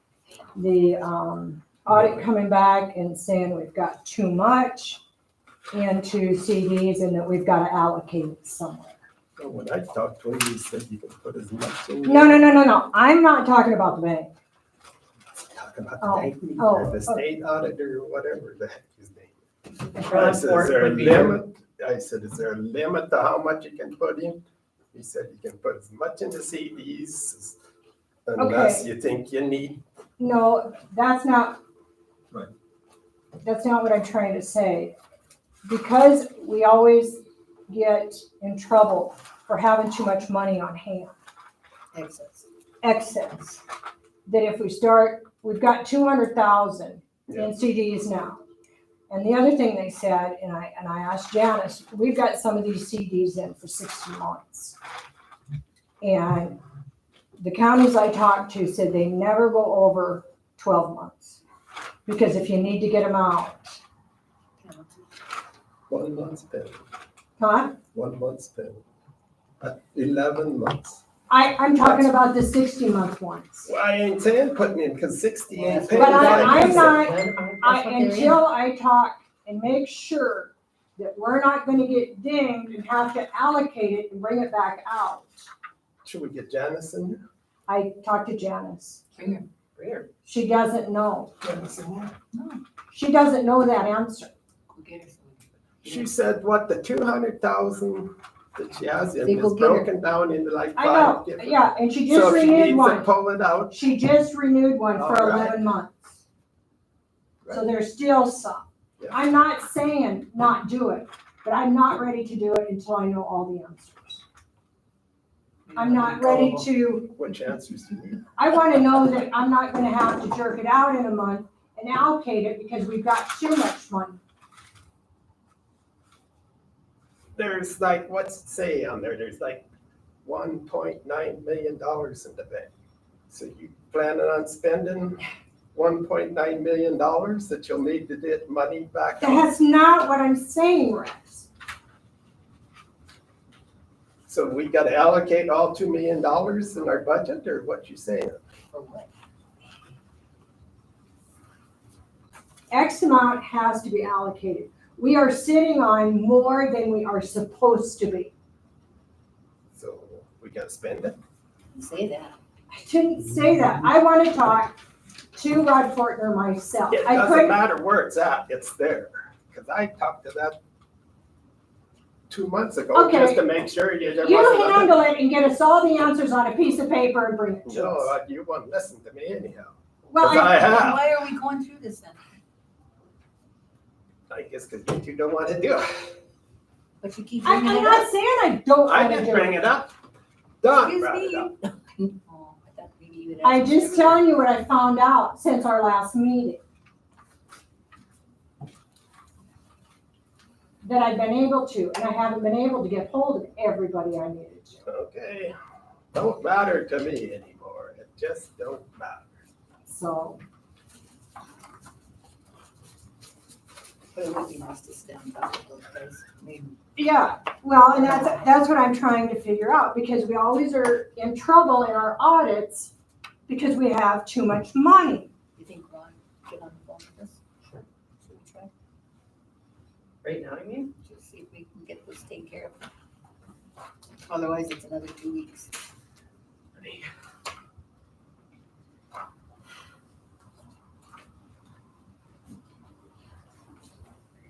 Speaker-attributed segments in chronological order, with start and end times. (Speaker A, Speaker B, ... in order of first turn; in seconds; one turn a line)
Speaker A: 0.5-5.0
Speaker B: 1.9-2.2
Speaker A: 5.7-9.0
Speaker B: 9.4-12.5
Speaker A: 12.0-14.3
Speaker B: 15.3-19.4
Speaker A: 16.0-17.2
Speaker C: 19.9-21.4
Speaker B: 20.0-24.4
Speaker B: 24.9-27.6
Speaker B: 28.2-29.8
Speaker A: 28.4-28.9
Speaker A: 30.2-31.6
Speaker A: 33.4-34.9
Speaker A: 35.6-41.1
Speaker D: 41.9-42.5
Speaker A: 42.8-43.6
Speaker A: 44.2-48.4
Speaker B: 47.3-47.5
Speaker A: 49.1-54.8
Speaker A: 56.0-56.6
Speaker A: 57.4-61.4
Speaker A: 62.0-63.8
Speaker D: 64.6-65.0
Speaker B: 65.9-66.8
Speaker A: 67.4-67.8
Speaker B: 67.9-68.8
Speaker B: 69.6-71.0
Speaker A: 71.3-73.7
Speaker B: 71.8-72.1
Speaker B: 73.6-77.1
Speaker D: 75.5-78.4
Speaker A: 75.9-85.5
Speaker C: 76.4-77.6
Speaker B: 86.0-87.2
Speaker A: 87.7-89.0
Speaker D: 89.1-89.5
Speaker A: 90.2-91.3
Speaker B: 91.4-92.1
Speaker D: 92.3-92.6
Speaker A: 92.9-94.3
Speaker D: 94.7-96.1
Speaker B: 95.8-103.8
Speaker D: 99.2-99.9
Speaker A: 100.8-103.1
Speaker A: 103.7-106.1
Speaker B: 105.0-105.6
Speaker A: 107.5-114.2
Speaker D: 115.7-116.1
Speaker A: 115.7-117.1
Speaker B: 116.0-118.3
Speaker A: 118.4-124.2
Speaker B: 127.3-129.6
Speaker B: 130.2-132.7
Speaker B: 133.3-135.2
Speaker B: 135.7-139.5
Speaker A: 139.2-141.5
Speaker B: 144.3-148.4
Speaker D: 148.7-149.1
Speaker A: 152.7-158.3
Speaker B: 159.8-161.2
Speaker D: 161.7-162.4
Speaker A: 162.7-164.8
Speaker A: 165.3-167.6
Speaker B: 166.9-170.6
Speaker B: 172.3-174.9
Speaker A: 172.9-173.4
Speaker A: 174.2-178.1
Speaker B: 177.7-181.0
Speaker A: 180.1-180.7
Speaker D: 180.3-182.2
Speaker B: 184.3-186.1
Speaker D: 187.0-188.1
Speaker A: 187.4-189.6
Speaker B: 188.8-189.9
Speaker B: 190.6-191.5
Speaker D: 190.7-194.2
Speaker A: 193.4-196.6
Speaker A: 200.8-204.8
Speaker B: 204.8-205.5
Speaker B: 206.1-209.3
Speaker A: 209.9-210.4
Speaker D: 214.1-216.8
Speaker A: 217.0-222.9
Speaker D: 217.9-218.5
Speaker A: 223.5-225.3
Speaker D: 225.6-227.4
Speaker D: 228.2-228.7
Speaker C: 230.2-230.9
Speaker D: 231.0-232.9
Speaker D: 234.3-235.7